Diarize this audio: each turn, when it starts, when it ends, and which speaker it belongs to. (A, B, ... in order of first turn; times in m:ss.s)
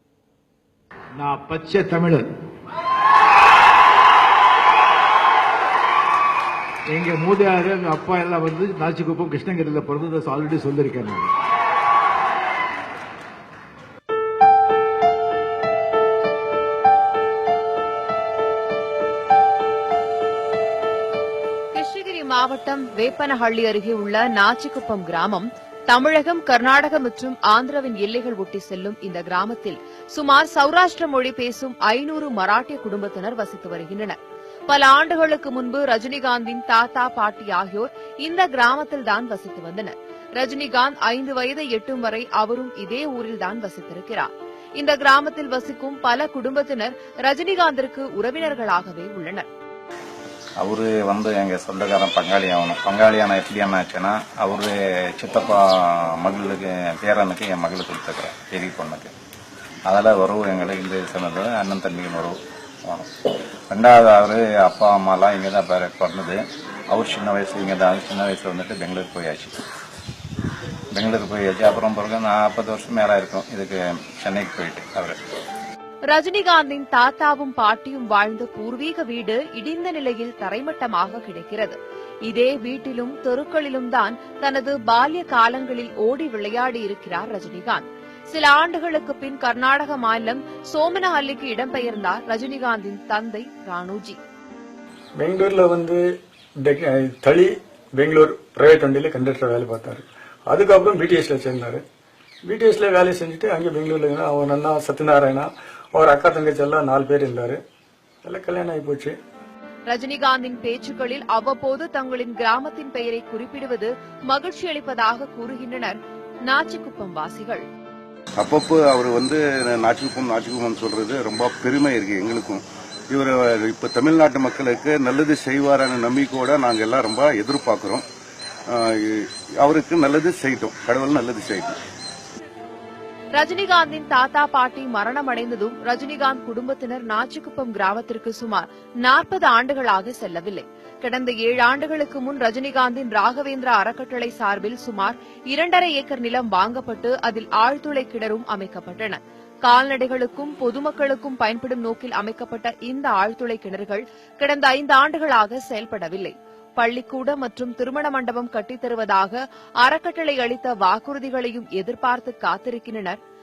0:01.2-0:02.3 A
0:06.9-0:11.3 A
0:21.7-0:34.2 B
0:34.7-0:49.5 B
0:50.6-0:59.1 C
0:59.9-1:09.6 C
1:10.9-1:15.2 C
1:16.1-1:34.2 B
1:35.2-1:36.0 D
1:36.6-1:41.8 D
1:42.5-1:47.6 D
1:48.2-1:49.2 D
1:49.9-1:57.6 B
1:58.4-2:08.0 E
2:08.7-2:11.8 E
2:13.3-2:43.2 B